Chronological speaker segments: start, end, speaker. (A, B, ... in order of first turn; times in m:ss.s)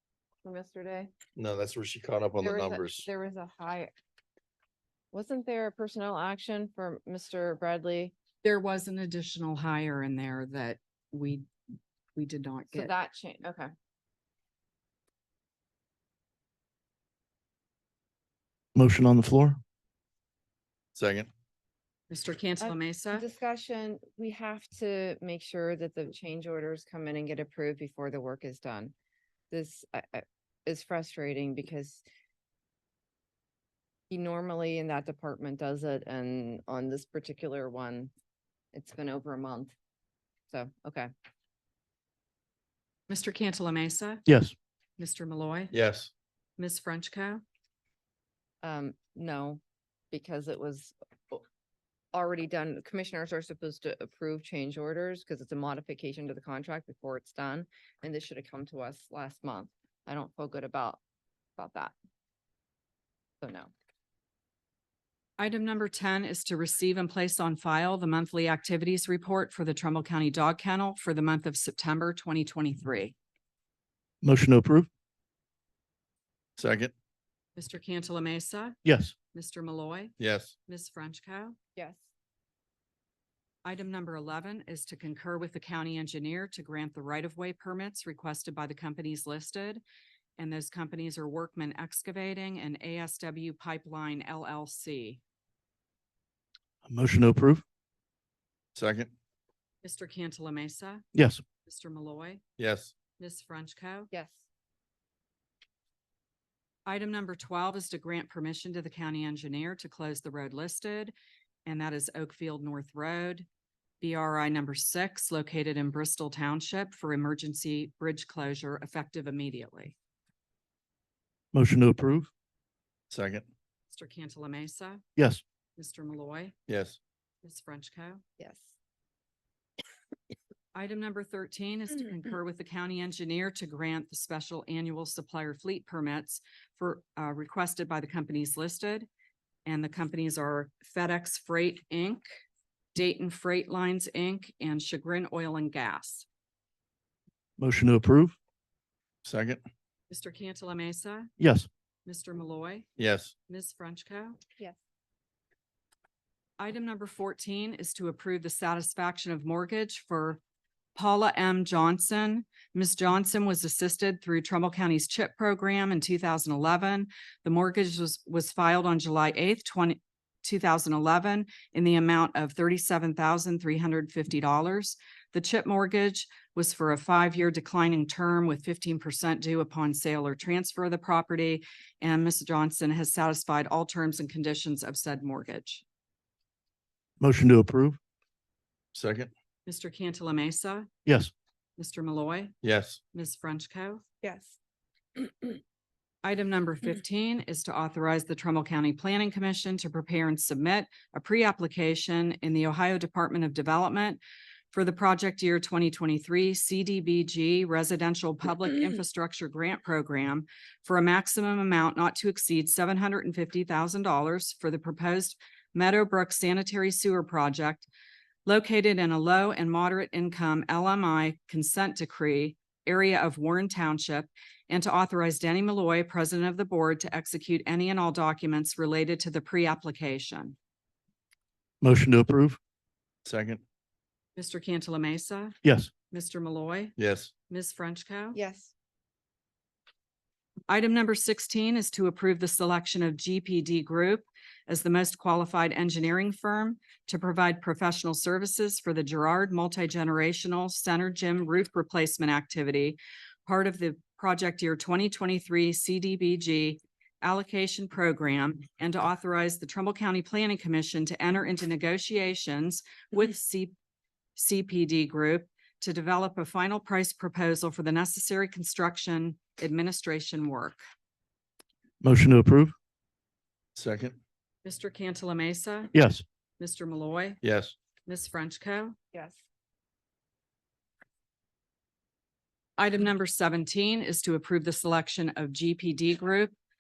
0:00.4-0:01.1 A
0:01.4-0:03.1 B
0:02.4-0:03.9 A
0:05.1-0:08.2 A
0:08.4-0:11.5 C
0:12.2-0:12.9 C
0:12.7-0:13.7 A
0:18.8-0:19.6 D
0:21.0-0:21.3 B
0:22.1-0:23.2 C
0:22.6-0:28.9 A
0:29.5-0:32.0 A
0:34.1-0:38.1 A
0:38.7-0:39.7 A
0:40.5-0:41.1 A
0:43.1-0:44.2 C
0:44.3-0:44.6 D
0:45.0-0:45.7 C
0:45.7-0:46.1 B
0:46.6-0:47.4 C
0:48.6-0:51.4 A
0:52.1-1:01.0 A
1:01.6-1:01.9 A
1:03.4-1:03.7 A
1:05.4-1:13.2 C
1:14.2-1:14.9 D
1:16.6-1:16.9 B
1:17.6-1:18.8 C
1:18.8-1:19.1 D
1:19.3-1:20.1 C
1:20.2-1:20.5 B
1:20.7-1:21.6 C
1:21.8-1:22.1 A
1:23.6-1:29.8 C
1:30.4-1:35.2 C
1:36.8-1:37.6 D
1:38.8-1:39.1 B
1:39.8-1:41.1 C
1:41.1-1:41.4 D
1:41.7-1:42.4 C
1:42.6-1:42.9 B
1:43.2-1:44.1 C
1:44.1-1:44.4 A
1:46.9-1:51.1 C
1:51.7-1:53.5 C
1:54.0-2:00.0 C
2:01.5-2:02.3 D
2:03.1-2:03.5 B
2:03.9-2:05.0 C
2:05.2-2:05.4 D
2:05.8-2:06.6 C
2:06.7-2:07.0 B
2:07.4-2:08.2 C
2:08.4-2:08.7 A
2:10.7-2:19.1 C
2:19.7-2:22.2 C
2:23.0-2:26.3 C
2:27.6-2:28.4 D
2:29.2-2:29.6 B
2:30.1-2:31.3 C
2:31.4-2:31.7 D
2:32.1-2:32.9 C
2:33.0-2:33.3 B
2:33.5-2:34.4 C
2:36.6-2:40.4 C
2:41.0-3:05.8 C
3:07.2-3:08.0 D
3:08.9-3:09.3 B
3:09.7-3:10.9 C
3:11.1-3:11.3 D
3:11.8-3:12.6 C
3:12.6-3:13.0 B
3:13.1-3:14.0 C
3:14.2-3:14.6 A
3:16.2-3:24.2 C
3:24.7-3:37.9 C
3:38.5-3:50.6 C
3:51.8-3:52.6 D
3:53.2-3:53.6 B
3:54.4-3:55.6 C
3:55.6-3:55.9 D
3:56.1-3:57.0 C
3:57.0-3:57.3 B
3:57.5-3:58.4 C
3:58.4-3:58.7 A
4:00.7-4:23.7 C
4:24.4-4:30.8 C
4:32.0-4:32.8 D
4:33.8-4:34.2 B
4:34.6-4:35.9 C
4:35.9-4:36.2 D
4:36.6-4:37.4 C
4:37.4-4:37.7 B
4:38.1-4:39.0 C
4:39.1-4:39.4 A
4:42.8-4:46.5 C